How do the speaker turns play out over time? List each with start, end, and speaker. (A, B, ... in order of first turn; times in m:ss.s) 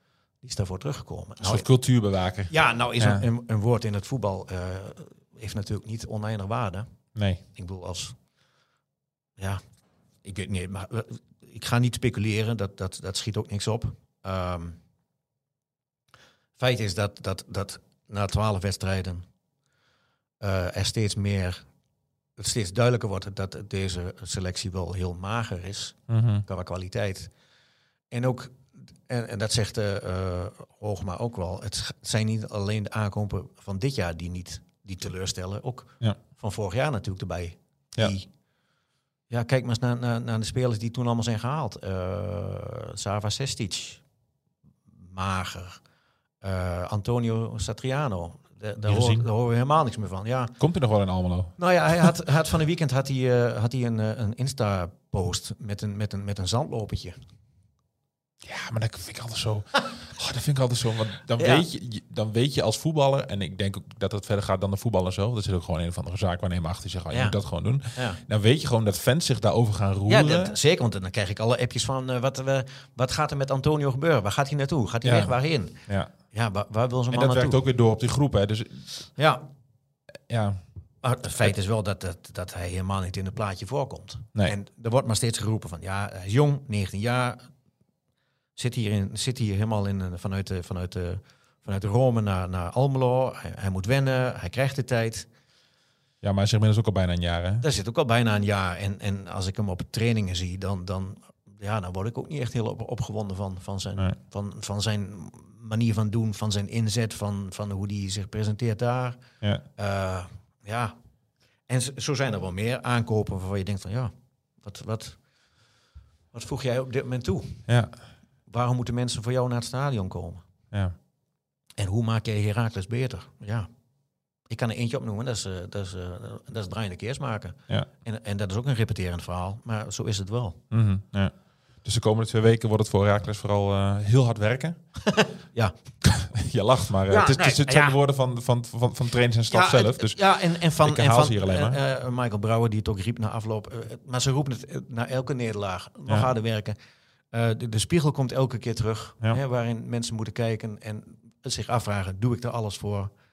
0:00.4-0:01.7 A
0:01.4-0:03.2 B
0:02.5-0:06.9 A
0:07.1-0:07.4 B
0:07.5-0:08.1 A
0:10.2-0:14.8 A
0:16.6-0:19.2 A
0:20.4-0:21.6 A
0:22.4-0:27.3 A
0:26.1-0:26.4 B
0:28.1-0:38.3 A
0:39.3-0:44.0 A
0:45.0-0:45.8 A
0:46.4-0:50.6 A
0:48.8-0:49.2 B
0:50.6-0:52.1 B
0:51.6-0:57.2 A
0:58.4-1:10.6 B
1:01.4-1:01.6 A
1:07.1-1:07.4 A
1:07.9-1:08.2 A
1:10.1-1:15.8 A
1:15.0-1:15.3 B
1:15.9-1:16.1 B
1:16.3-1:17.6 A
1:17.1-1:18.8 B
1:19.2-1:19.5 A
1:20.3-1:20.6 B
1:21.0-1:27.5 A
1:28.6-1:35.3 A
1:36.2-1:37.6 B
1:37.6-1:49.2 A
1:49.8-1:51.0 A
1:51.7-1:55.2 A
1:56.3-1:57.6 A
1:57.7-1:57.9 B
1:58.5-2:00.4 A
2:01.8-2:03.7 A
2:04.5-2:10.6 A
2:10.7-2:14.8 B
2:15.0-2:15.7 A
2:16.0-2:21.8 B
2:17.1-2:18.0 A
2:19.5-2:26.8 A
2:27.3-2:33.1 A